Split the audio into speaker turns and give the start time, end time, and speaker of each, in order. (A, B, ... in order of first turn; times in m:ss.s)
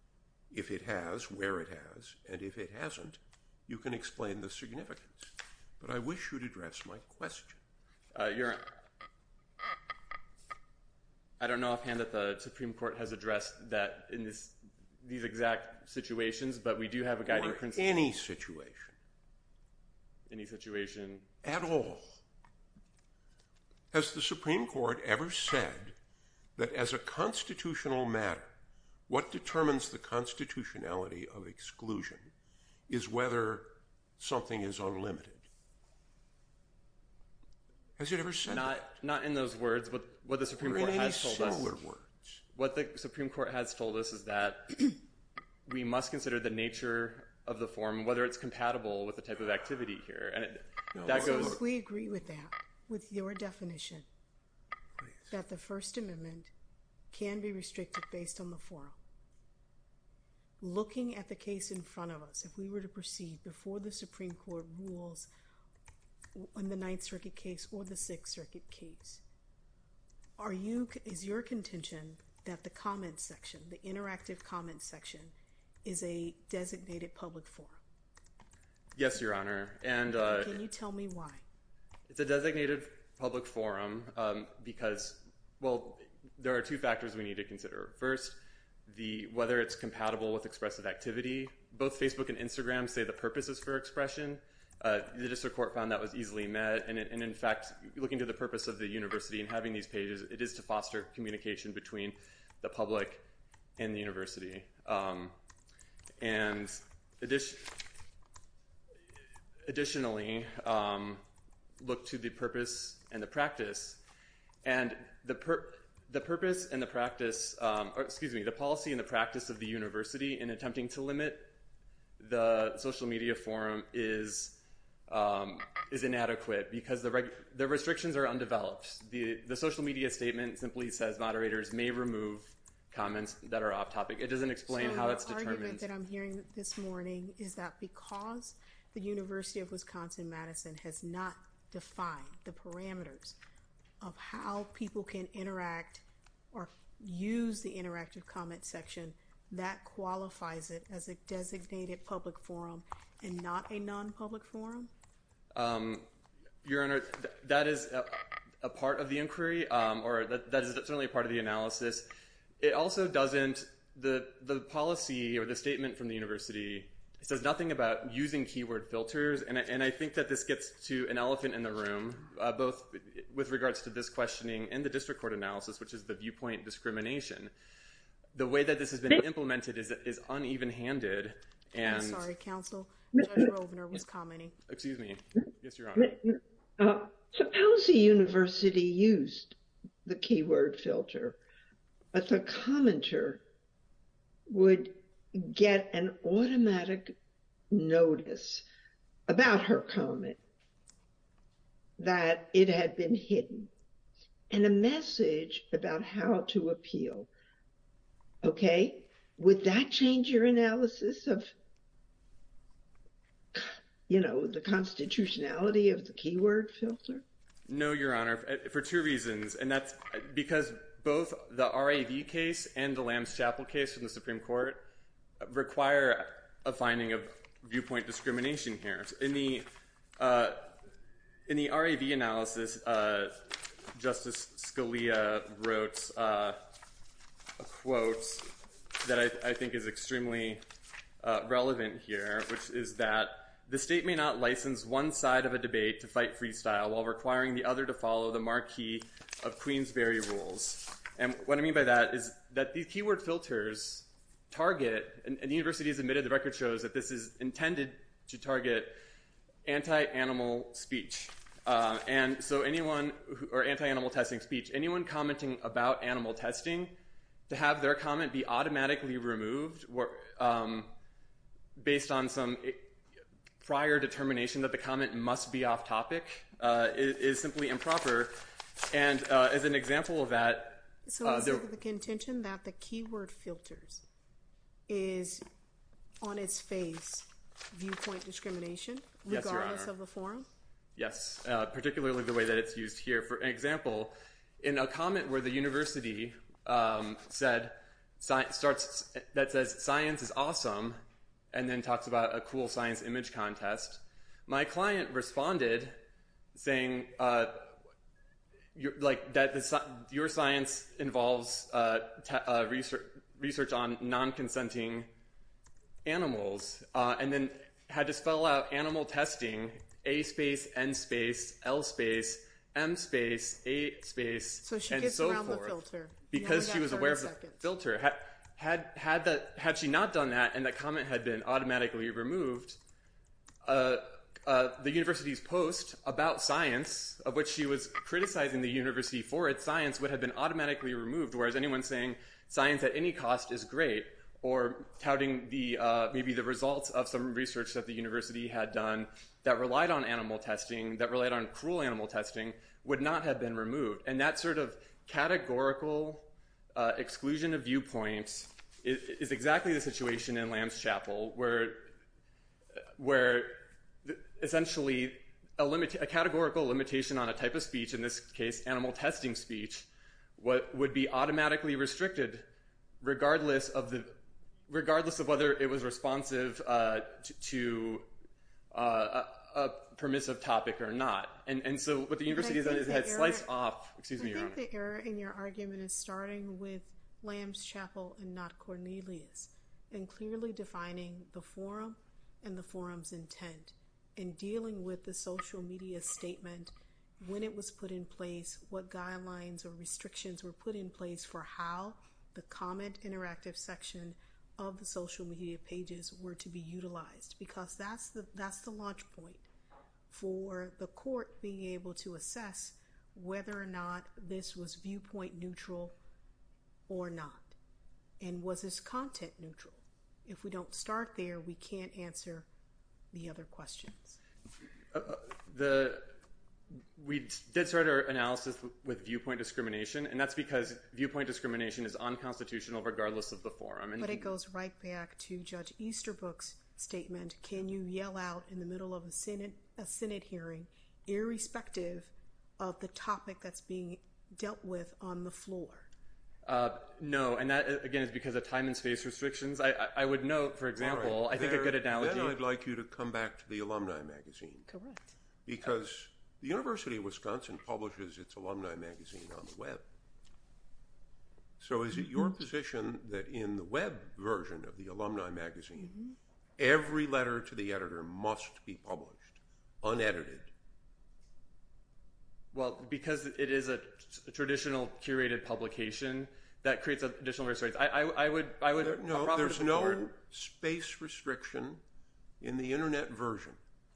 0:00.5-0:07.6 A
0:08.1-0:08.7 B
0:11.4-0:18.1 B
0:17.2-0:19.0 A
0:20.3-0:21.3 B
0:21.4-0:22.2 A
0:23.9-0:26.0 A
0:26.6-0:28.6 A
0:29.1-0:32.3 A
0:32.9-0:35.5 A
0:38.0-0:38.9 A
0:38.5-0:41.7 B
0:40.6-0:42.4 A
0:42.5-0:44.9 B
0:45.7-0:51.6 B
0:50.9-0:51.6 A
0:51.2-0:54.1 C
0:55.0-0:55.3 A
0:55.3-0:56.5 C
0:57.1-0:59.0 C
1:00.6-1:05.3 C
1:06.4-1:09.2 C
1:10.4-1:17.8 C
1:19.0-1:20.6 B
1:20.2-1:21.4 C
1:22.1-1:43.2 B
1:43.8-1:45.4 B
1:46.2-1:47.8 B
1:49.7-1:51.2 B
1:51.8-1:54.0 B
1:54.6-2:01.5 B
2:02.2-2:15.9 B
2:14.7-2:23.4 C
2:24.0-2:34.9 C
2:35.6-2:36.1 B
2:36.6-2:42.1 B
2:42.6-2:57.5 B
2:58.4-3:02.2 B
3:01.8-3:04.6 C
3:04.7-3:06.2 B
3:06.0-3:11.4 D
3:12.1-3:13.4 D
3:14.5-3:17.2 D
3:17.7-3:18.6 D
3:19.3-3:20.4 D
3:22.0-3:23.7 D
3:24.5-3:27.3 D
3:28.4-3:31.5 D
3:33.5-3:37.2 D
3:37.7-3:44.8 B
3:45.4-3:50.7 B
3:51.5-3:56.6 B
3:57.6-4:00.6 B
4:01.2-4:19.0 B
4:19.6-4:26.9 B
4:27.5-4:30.9 B
4:31.8-4:33.0 B
4:33.6-4:38.4 B
4:38.9-4:41.7 B
4:41.1-4:44.0 C
4:44.9-4:45.4 C
4:46.2-4:50.5 C
4:49.3-4:49.9 B
4:51.0-5:01.0 B
5:01.5-5:06.0 B
5:06.5-5:07.7 B
5:08.8-5:15.1 B
5:16.0-5:25.8 B
5:24.6-5:27.6 C
5:26.3-5:32.8 B
5:33.6-6:01.9 B
6:03.0-6:12.5 B
6:13.0-6:14.2 B
6:14.7-6:18.1 B
6:18.7-6:24.6 B
6:22.3-6:23.5 C
6:24.2-6:49.5 C
6:50.1-6:56.0 C
6:56.9-6:57.6 C
6:58.2-7:02.5 C
7:03.1-7:04.2 C
7:04.9-7:06.1 B
7:07.0-7:14.3 B
7:14.0-7:25.9 C
7:26.4-7:32.4 B
7:30.8-7:34.7 A
7:34.7-7:35.1 C
7:35.5-7:39.8 A
7:41.6-7:46.0 A
7:46.6-7:50.5 A
7:52.5-8:00.0 B
7:58.8-8:01.8 A
8:02.4-8:03.6 A